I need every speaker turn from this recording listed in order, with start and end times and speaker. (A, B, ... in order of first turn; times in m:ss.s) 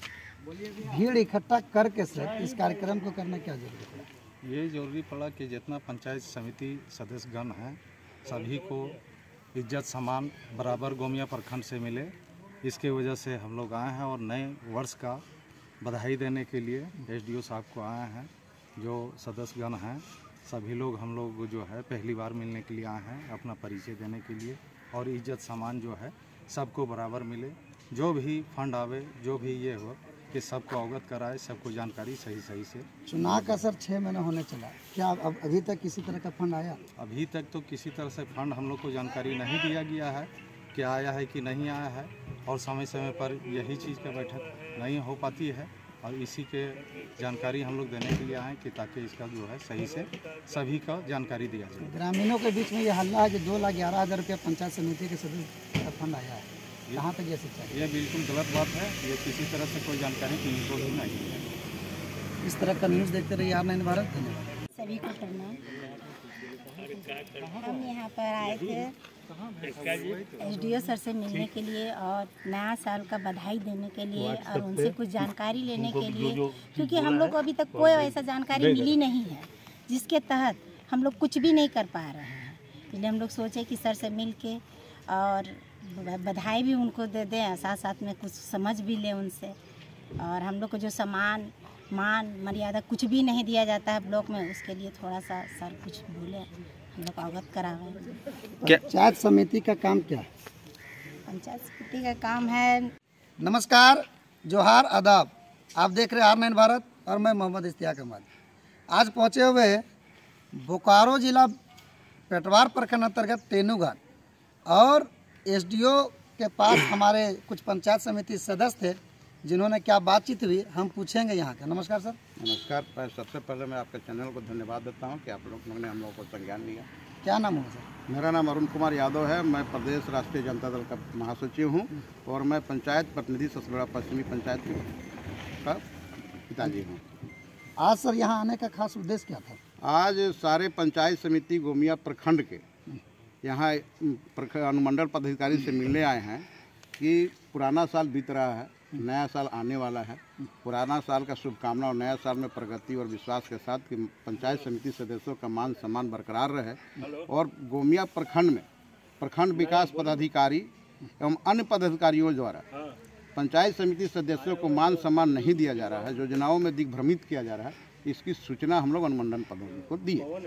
0:00.7-0:04.0 A
0:04.4-0:09.0 B
0:09.5-0:15.2 B
0:15.8-0:33.6 B
0:33.1-0:36.8 A
0:37.0-0:51.9 B
0:51.8-0:57.8 A
0:57.7-1:01.5 B
1:02.4-1:04.5 A
1:04.8-1:05.7 C
1:07.5-1:09.0 C
1:10.3-1:29.6 C
1:30.2-1:38.2 C
1:38.6-1:40.3 A
1:41.3-1:42.9 C
1:43.4-1:48.3 A
1:48.9-1:49.8 A
1:50.5-1:51.5 A
1:52.3-1:54.0 A
1:54.7-2:02.2 A
2:02.4-2:06.9 D
2:07.2-2:07.9 A
2:08.1-2:14.9 D
2:16.5-2:17.0 D
2:17.8-2:19.6 A
2:19.8-2:22.6 D
2:23.4-2:26.4 D
2:27.0-2:38.6 D
2:39.2-2:42.6 D
2:43.3-2:50.3 D